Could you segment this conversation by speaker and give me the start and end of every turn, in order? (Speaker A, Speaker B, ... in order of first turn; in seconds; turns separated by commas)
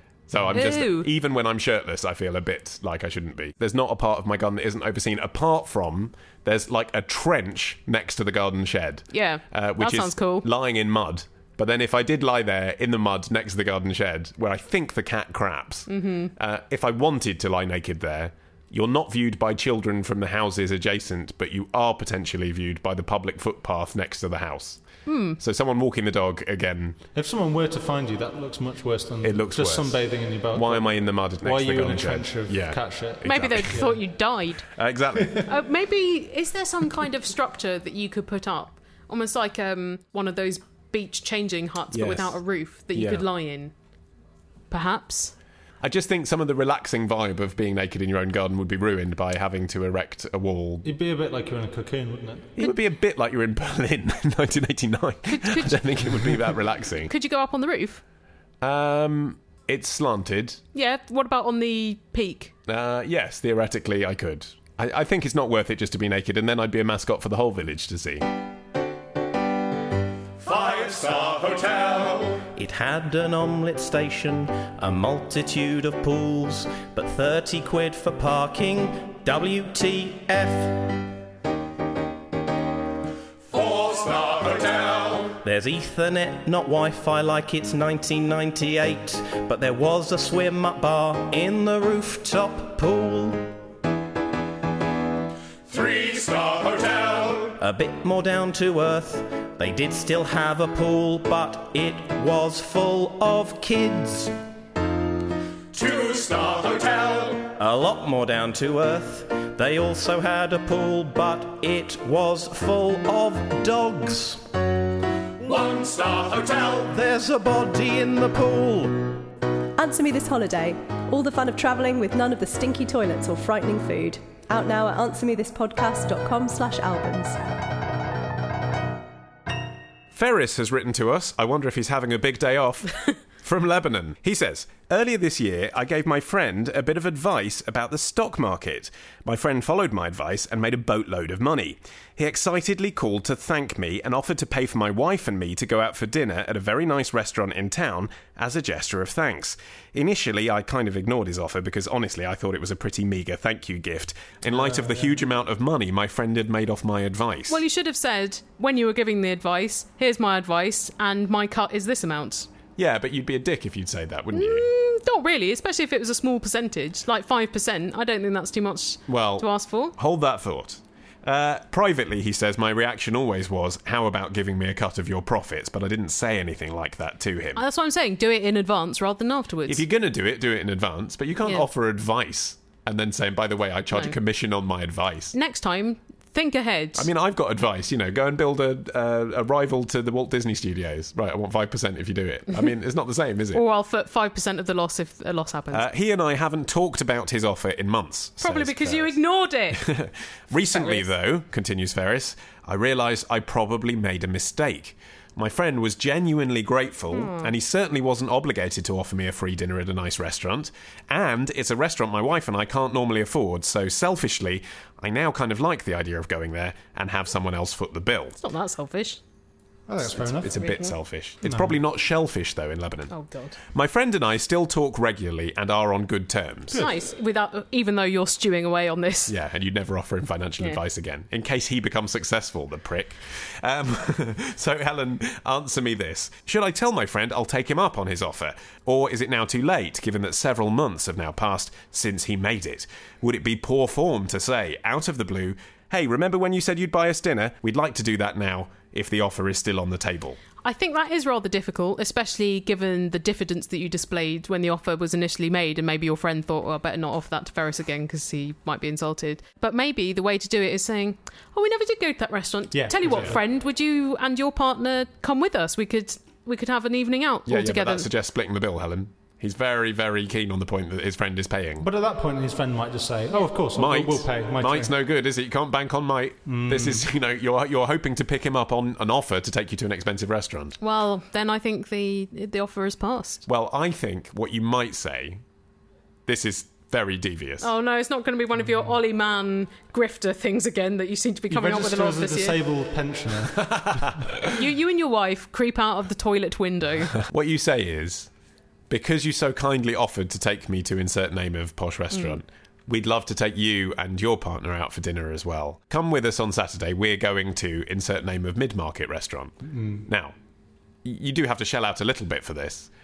Speaker A: 0.3-24.8, Speaker B: 0.5-1.1, Speaker B: 9.1-10.4, Speaker B: 15.9-16.3, Speaker B: 25.1-25.4, Speaker A: 25.4-27.0, Speaker C: 27.1-34.0, Speaker A: 29.2-33.7, Speaker B: 33.2-34.7, Speaker A: 34.7-35.5, Speaker C: 35.2-35.4, Speaker B: 35.4-43.7, Speaker A: 41.9-42.4, Speaker A: 42.9-43.3, Speaker B: 44.7-45.3, Speaker A: 45.8-50.9, Speaker C: 50.8-52.5, Speaker A: 52.5-57.1, Speaker B: 55.3-55.8, Speaker B: 57.1-58.0, Speaker A: 58.6-60.6, Speaker B: 60.7-62.5, Speaker A: 62.7-68.3, Speaker D: 70.4-81.1, Speaker D: 83.5-93.6, Speaker D: 95.7-104.4, Speaker D: 105.7-114.6, Speaker D: 115.4-119.2, Speaker E: 119.8-127.6, Speaker A: 130.1-157.6, Speaker C: 154.6-155.1, Speaker B: 157.5-162.5, Speaker A: 162.8-164.7, Speaker B: 164.3-169.9, Speaker A: 169.1-177.6, Speaker B: 177.6-179.8, Speaker A: 179.7-185.3, Speaker B: 185.3-187.1, Speaker A: 186.9-193.6, Speaker B: 193.5-195.9, Speaker A: 195.7-199.2, Speaker B: 198.4-199.9, Speaker A: 199.7-218.4, Speaker B: 200.7-201.1, Speaker B: 207.1-207.5, Speaker B: 218.4-219.2, Speaker C: 219.9-220.6, Speaker A: 220.2-223.1, Speaker B: 220.5-220.9, Speaker C: 221.4-221.7, Speaker B: 223.1-223.6, Speaker A: 223.6-226.8, Speaker B: 226.7-229.3, Speaker A: 229.3-250.4, Speaker B: 250.6-268.1, Speaker C: 262.7-263.4, Speaker A: 267.5-271.9, Speaker C: 271.8-274.9, Speaker A: 273.7-280.8, Speaker C: 276.5-277.0, Speaker B: 280.8-283.4, Speaker A: 283.4-285.4, Speaker A: 286.3-287.7, Speaker B: 287.6-292.6, Speaker C: 291.5-294.1, Speaker A: 293.6-294.5, Speaker B: 294.5-297.2, Speaker A: 297.1-298.3, Speaker A: 298.9-310.4, Speaker B: 302.1-302.4, Speaker A: 311.0-312.9